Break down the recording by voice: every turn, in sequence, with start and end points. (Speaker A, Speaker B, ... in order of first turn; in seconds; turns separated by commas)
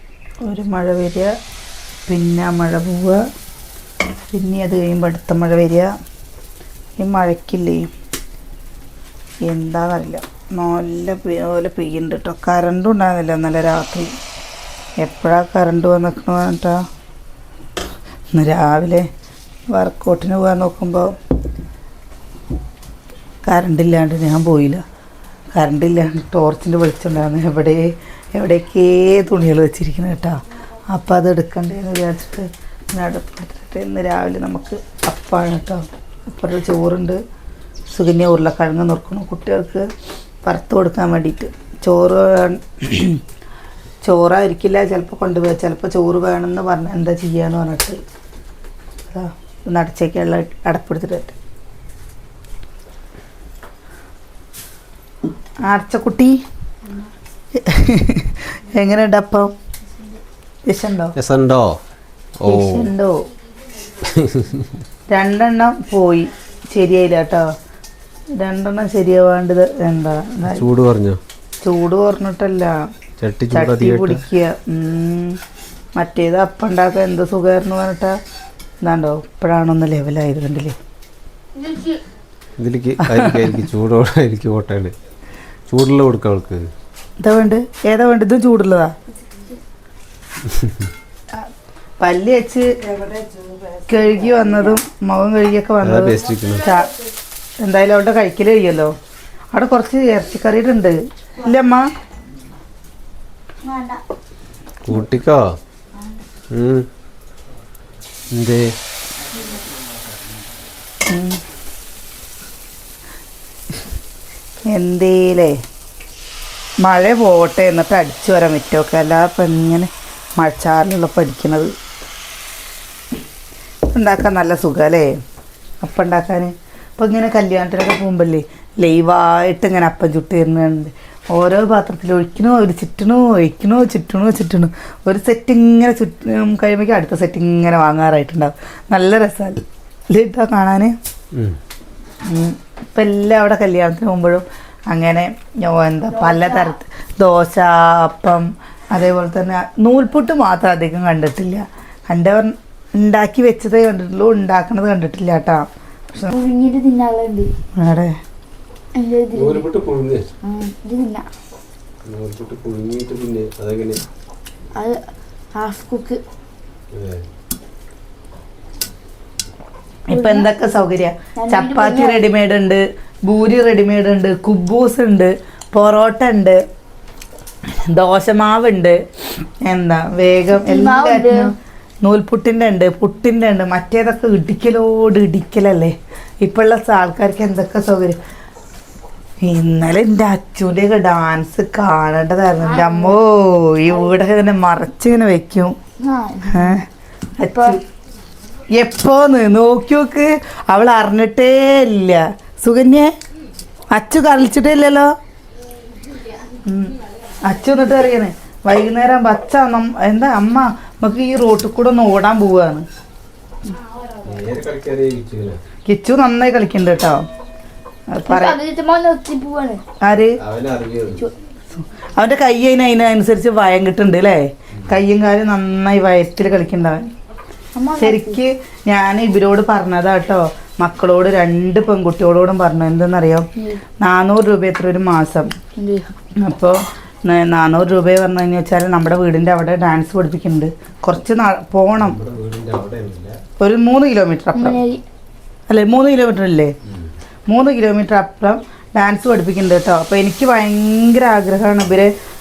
Speaker A: 0.4-1.3, Speaker A: 2.1-3.2, Speaker A: 4.3-5.9, Speaker A: 7.0-7.9, Speaker A: 9.4-14.1, Speaker A: 15.0-16.8, Speaker A: 18.3-19.1, Speaker A: 19.7-21.2, Speaker A: 23.4-24.8, Speaker A: 25.5-37.2, Speaker A: 37.9-39.9, Speaker A: 40.4-43.2, Speaker A: 44.0-48.0, Speaker A: 49.1-51.3, Speaker A: 55.6-56.4, Speaker A: 57.5-59.5, Speaker A: 60.6-61.1, Speaker B: 61.1-61.8, Speaker B: 62.4-62.9, Speaker A: 62.4-63.2, Speaker B: 64.0-64.6, Speaker A: 65.1-67.5, Speaker A: 68.3-70.7, Speaker B: 70.4-71.2, Speaker A: 71.6-72.9, Speaker B: 73.2-74.2, Speaker A: 73.5-75.4, Speaker A: 76.0-78.2, Speaker A: 78.8-80.7, Speaker C: 81.6-82.0, Speaker B: 82.6-84.9, Speaker A: 83.1-83.4, Speaker B: 85.7-86.6, Speaker A: 87.2-88.9, Speaker A: 92.0-93.0, Speaker A: 93.8-96.9, Speaker B: 95.8-96.7, Speaker A: 97.6-98.9, Speaker A: 99.5-101.9, Speaker C: 103.7-104.0, Speaker B: 104.9-105.4, Speaker B: 106.5-106.9, Speaker B: 108.3-108.7, Speaker A: 111.1-111.4, Speaker A: 114.7-115.6, Speaker A: 116.8-121.7, Speaker A: 123.9-125.1, Speaker A: 125.8-140.9, Speaker A: 142.2-156.3, Speaker C: 146.3-146.7, Speaker C: 156.3-157.5, Speaker A: 157.7-158.2, Speaker C: 159.0-159.7, Speaker B: 159.4-160.2, Speaker C: 160.4-161.3, Speaker B: 162.0-164.0, Speaker C: 164.8-166.2, Speaker B: 166.9-167.2, Speaker A: 170.1-176.6, Speaker C: 170.1-170.5, Speaker C: 171.4-172.2, Speaker A: 177.9-188.2, Speaker C: 180.6-181.5, Speaker A: 189.4-195.8, Speaker C: 192.7-193.2, Speaker C: 196.0-196.8, Speaker A: 196.5-196.8, Speaker A: 197.4-197.8, Speaker C: 197.5-197.8, Speaker A: 198.8-203.1, Speaker A: 203.9-205.1, Speaker A: 206.6-212.8, Speaker B: 214.2-215.6, Speaker A: 215.8-217.2, Speaker A: 218.1-218.6, Speaker C: 218.3-219.8, Speaker A: 220.0-220.3, Speaker B: 220.4-221.3, Speaker A: 221.8-227.1, Speaker C: 227.7-228.4, Speaker A: 228.0-233.5, Speaker A: 234.0-235.5, Speaker C: 235.8-236.1, Speaker A: 236.4-242.2, Speaker B: 242.0-243.4, Speaker A: 243.6-244.8, Speaker C: 244.5-245.0, Speaker A: 245.7-246.7, Speaker A: 247.5-252.1